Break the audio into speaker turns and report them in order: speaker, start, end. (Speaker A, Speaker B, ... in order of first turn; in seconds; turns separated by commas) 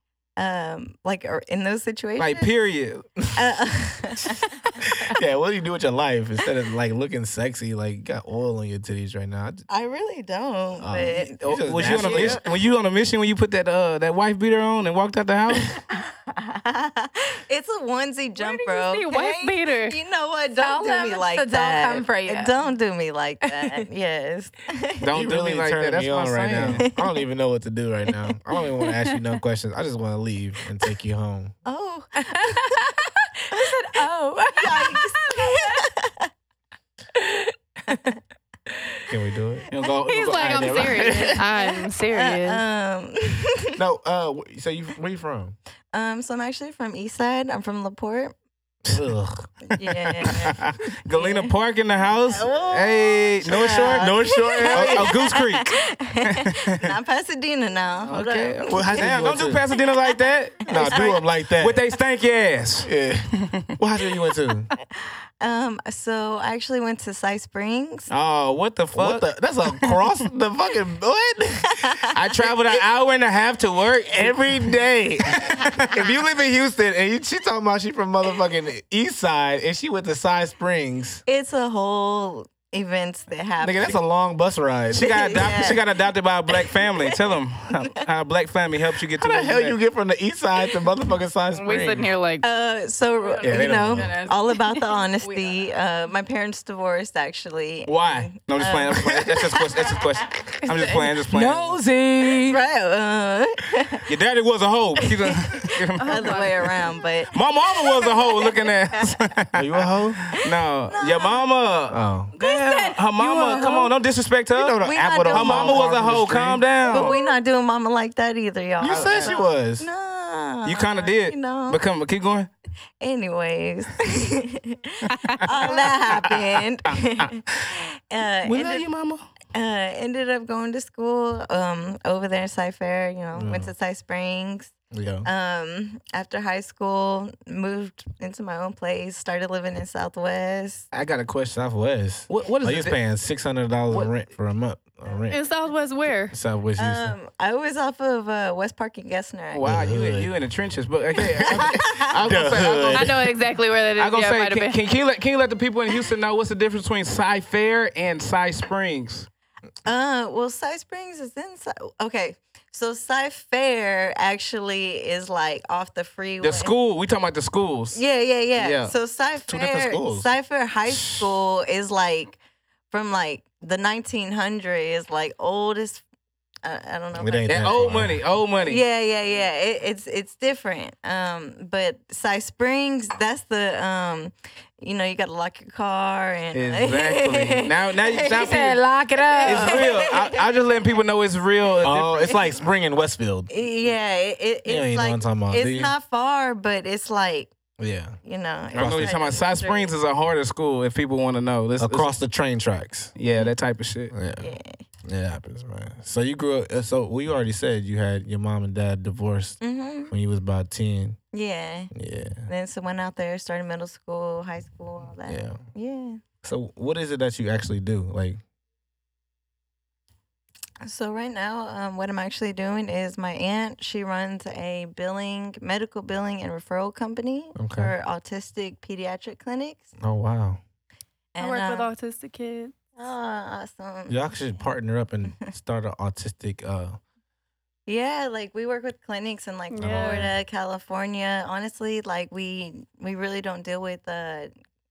Speaker A: 0.4-2.5, Speaker B: 2.2-3.0, Speaker A: 3.4-5.1, Speaker C: 5.0-9.7, Speaker A: 9.7-12.5, Speaker C: 10.8-12.4, Speaker B: 11.4-15.8, Speaker A: 15.9-25.1, Speaker D: 18.4-20.0, Speaker E: 20.6-22.6, Speaker E: 23.5-23.8, Speaker B: 25.0-26.8, Speaker C: 25.1-31.6, Speaker A: 26.9-27.2, Speaker A: 31.6-32.8, Speaker E: 32.2-35.8, Speaker A: 33.5-34.0, Speaker A: 34.5-36.3, Speaker E: 37.1-38.2, Speaker C: 39.1-39.7, Speaker B: 39.7-41.3, Speaker D: 40.1-42.6, Speaker C: 40.4-41.4, Speaker A: 41.3-43.8, Speaker C: 43.8-45.6, Speaker A: 45.9-48.4, Speaker C: 48.9-50.7, Speaker A: 49.7-51.5, Speaker B: 50.6-55.7, Speaker A: 52.3-60.1, Speaker C: 53.5-55.1, Speaker B: 56.2-56.9, Speaker B: 58.0-63.7, Speaker C: 58.6-59.6, Speaker C: 60.7-61.8, Speaker A: 60.8-61.2, Speaker C: 62.8-64.7, Speaker A: 64.9-68.1, Speaker B: 68.1-70.0, Speaker C: 68.9-72.0, Speaker A: 71.7-72.2, Speaker B: 72.1-74.5, Speaker C: 74.1-81.2, Speaker B: 75.3-76.1, Speaker A: 81.3-84.0, Speaker C: 83.6-85.6, Speaker B: 84.9-89.8, Speaker A: 84.9-85.8, Speaker A: 86.5-87.0, Speaker C: 89.2-92.1, Speaker D: 91.5-92.5, Speaker A: 92.4-100.5, Speaker E: 93.2-95.7, Speaker C: 93.4-94.1, Speaker B: 97.9-101.8, Speaker E: 100.4-102.6, Speaker A: 102.5-104.1, Speaker B: 104.1-106.5, Speaker A: 105.0-109.2, Speaker D: 106.0-106.7, Speaker B: 107.3-117.2, Speaker C: 109.5-110.2, Speaker A: 110.5-111.5, Speaker C: 111.9-112.3, Speaker A: 112.4-113.9, Speaker E: 112.9-113.7, Speaker C: 114.5-116.6, Speaker A: 114.8-116.2, Speaker A: 116.8-121.8, Speaker C: 118.8-119.9, Speaker B: 118.9-119.3, Speaker B: 120.7-122.5, Speaker A: 123.0-128.9, Speaker B: 128.4-129.2, Speaker A: 129.5-134.7, Speaker C: 133.3-133.7, Speaker C: 134.9-135.3, Speaker A: 135.2-140.9, Speaker B: 140.9-141.4, Speaker C: 141.4-145.4, Speaker B: 142.3-143.0, Speaker D: 145.3-146.3, Speaker C: 146.3-147.2, Speaker A: 146.8-149.7, Speaker B: 149.5-153.1, Speaker C: 149.6-150.3, Speaker A: 151.6-152.1, Speaker C: 151.6-153.3, Speaker D: 152.9-154.8, Speaker B: 154.0-159.3, Speaker A: 159.8-166.7, Speaker B: 166.4-168.0, Speaker A: 167.9-172.4, Speaker B: 168.6-168.9, Speaker C: 169.5-170.3, Speaker A: 172.9-176.0, Speaker A: 176.6-178.0, Speaker C: 177.2-178.2, Speaker B: 177.5-178.8, Speaker A: 178.6-188.6, Speaker B: 186.5-188.8, Speaker E: 188.2-189.9, Speaker D: 189.2-189.7, Speaker A: 189.4-190.7, Speaker B: 189.5-192.4, Speaker C: 191.8-193.5, Speaker A: 193.5-197.5, Speaker C: 194.7-195.9, Speaker C: 197.8-198.2, Speaker A: 198.2-199.9, Speaker B: 198.7-202.1, Speaker C: 198.7-199.1, Speaker C: 201.8-203.2, Speaker B: 203.2-204.1, Speaker C: 204.1-211.2, Speaker A: 204.4-204.8, Speaker A: 209.6-210.1, Speaker A: 211.3-211.9, Speaker C: 211.9-212.5, Speaker A: 212.5-216.2, Speaker C: 215.3-215.6, Speaker C: 216.4-218.4, Speaker A: 220.8-229.9, Speaker C: 227.6-227.9, Speaker C: 230.0-230.6, Speaker A: 231.3-231.9, Speaker D: 231.4-232.7, Speaker A: 233.0-234.2, Speaker C: 234.1-237.0, Speaker A: 237.9-244.5, Speaker D: 239.7-240.3, Speaker C: 239.8-240.3